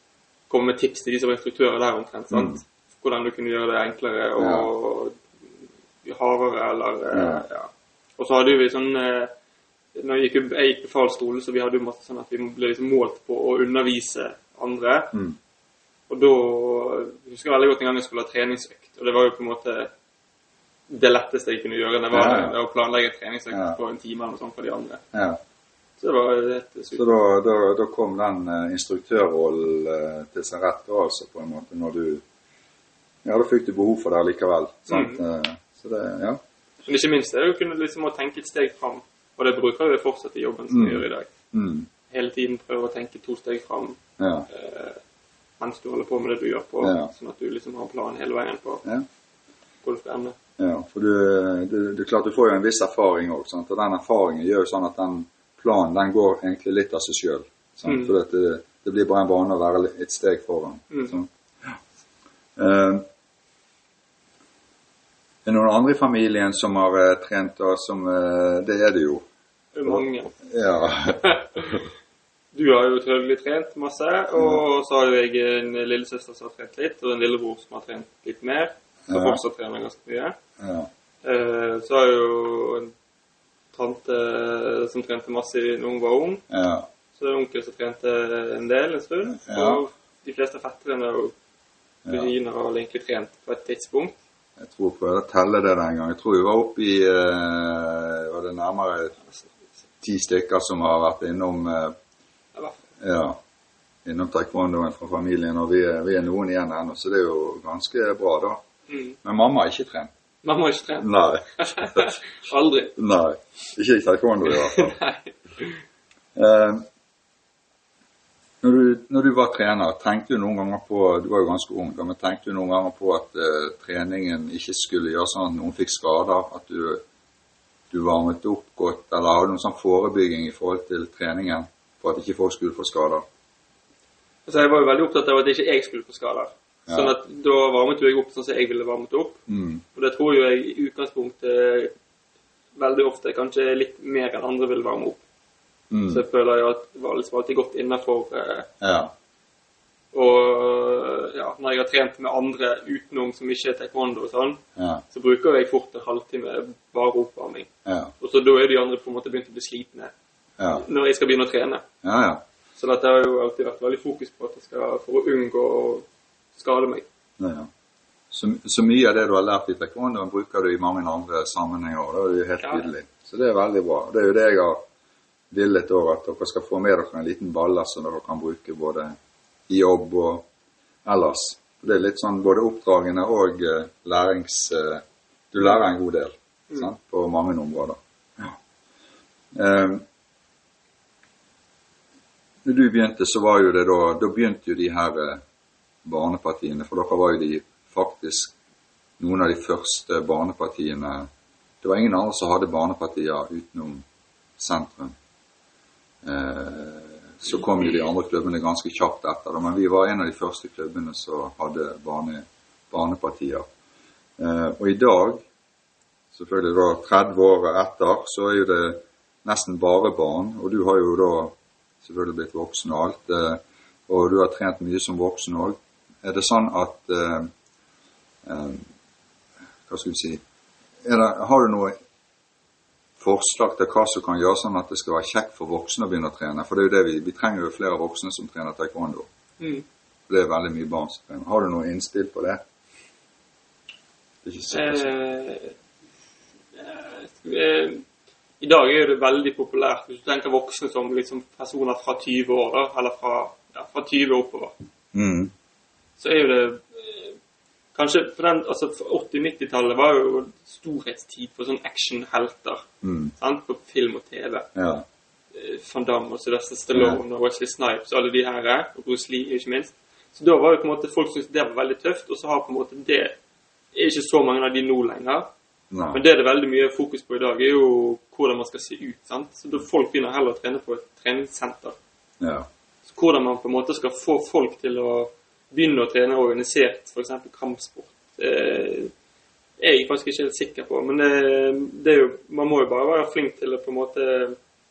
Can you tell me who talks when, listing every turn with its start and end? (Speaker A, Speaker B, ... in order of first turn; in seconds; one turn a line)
Speaker A: 0.5-5.2
Speaker B: 2.3-2.6
Speaker B: 4.4-4.7
Speaker A: 6.0-9.3
Speaker B: 7.1-7.4
Speaker A: 9.9-15.1
Speaker A: 16.1-19.9
Speaker A: 20.9-25.0
Speaker B: 22.1-22.6
Speaker B: 23.5-23.8
Speaker B: 25.1-25.4
Speaker A: 26.0-27.1
Speaker B: 26.9-32.2
Speaker B: 33.2-36.4
Speaker A: 34.9-35.2
Speaker A: 36.8-41.3
Speaker B: 40.7-41.9
Speaker A: 42.1-44.0
Speaker B: 44.2-44.5
Speaker A: 44.5-45.0
Speaker A: 45.6-48.8
Speaker B: 46.8-47.1
Speaker A: 49.8-50.3
Speaker B: 50.6-61.8
Speaker A: 57.9-58.1
Speaker B: 62.6-63.0
Speaker B: 65.4-69.2
Speaker A: 69.7-70.3
Speaker B: 69.8-71.8
Speaker A: 71.2-71.8
Speaker A: 72.5-80.3
Speaker B: 74.3-74.6
Speaker B: 79.1-79.4
Speaker B: 80.6-80.9
Speaker A: 81.2-82.9
Speaker A: 83.7-86.4
Speaker B: 86.5-86.9
Speaker A: 87.2-91.3
Speaker B: 89.4-89.8
Speaker A: 92.1-94.2
Speaker B: 94.6-99.1
Speaker B: 100.0-101.9
Speaker B: 103.0-103.4
Speaker B: 104.0-108.6
Speaker A: 108.9-109.2
Speaker B: 109.2-110.1
Speaker A: 110.4-113.0
Speaker B: 111.0-112.1
Speaker B: 113.0-114.9
Speaker A: 114.5-115.8
Speaker B: 116.3-116.8
Speaker B: 118.6-127.0
Speaker B: 127.9-133.2
Speaker A: 134.4-139.4
Speaker B: 136.9-137.1
Speaker B: 139.5-139.8
Speaker A: 139.9-141.9
Speaker A: 142.8-145.2
Speaker B: 145.9-146.2
Speaker A: 146.1-148.7
Speaker B: 148.8-149.1
Speaker A: 150.1-154.6
Speaker B: 154.8-155.0
Speaker A: 155.1-157.7
Speaker B: 157.8-158.1
Speaker A: 158.2-160.1
Speaker B: 160.6-160.8
Speaker A: 160.8-161.8
Speaker B: 162.0-162.4
Speaker A: 162.8-166.0
Speaker A: 166.6-167.1
Speaker B: 167.4-167.7
Speaker B: 168.3-174.8
Speaker A: 172.6-172.9
Speaker B: 175.5-179.2
Speaker B: 179.7-180.5
Speaker B: 181.0-188.6
Speaker B: 189.5-190.0
Speaker B: 192.6-195.4
Speaker B: 196.0-198.5
Speaker B: 199.2-201.3
Speaker B: 201.8-204.0
Speaker B: 204.6-205.1
Speaker B: 206.2-213.7
Speaker A: 207.8-208.1
Speaker B: 214.4-215.4
Speaker B: 216.3-227.5
Speaker B: 228.4-228.9
Speaker B: 229.9-230.4
Speaker B: 231.0-231.9
Speaker B: 233.2-239.3
Speaker A: 239.6-239.8
Speaker B: 240.3-242.6
Speaker B: 244.4-245.1
Speaker A: 244.7-245.7
Speaker A: 246.7-248.0
Speaker A: 248.6-254.8
Speaker B: 255.1-255.5
Speaker A: 256.2-257.4
Speaker A: 257.9-262.9
Speaker B: 263.0-263.3
Speaker A: 263.4-264.7
Speaker B: 264.7-265.0
Speaker A: 265.5-273.4
Speaker B: 266.9-267.2
Speaker A: 273.9-275.5
Speaker B: 275.9-276.2
Speaker A: 276.1-281.9
Speaker B: 282.4-282.7
Speaker A: 283.1-289.1
Speaker A: 289.8-294.6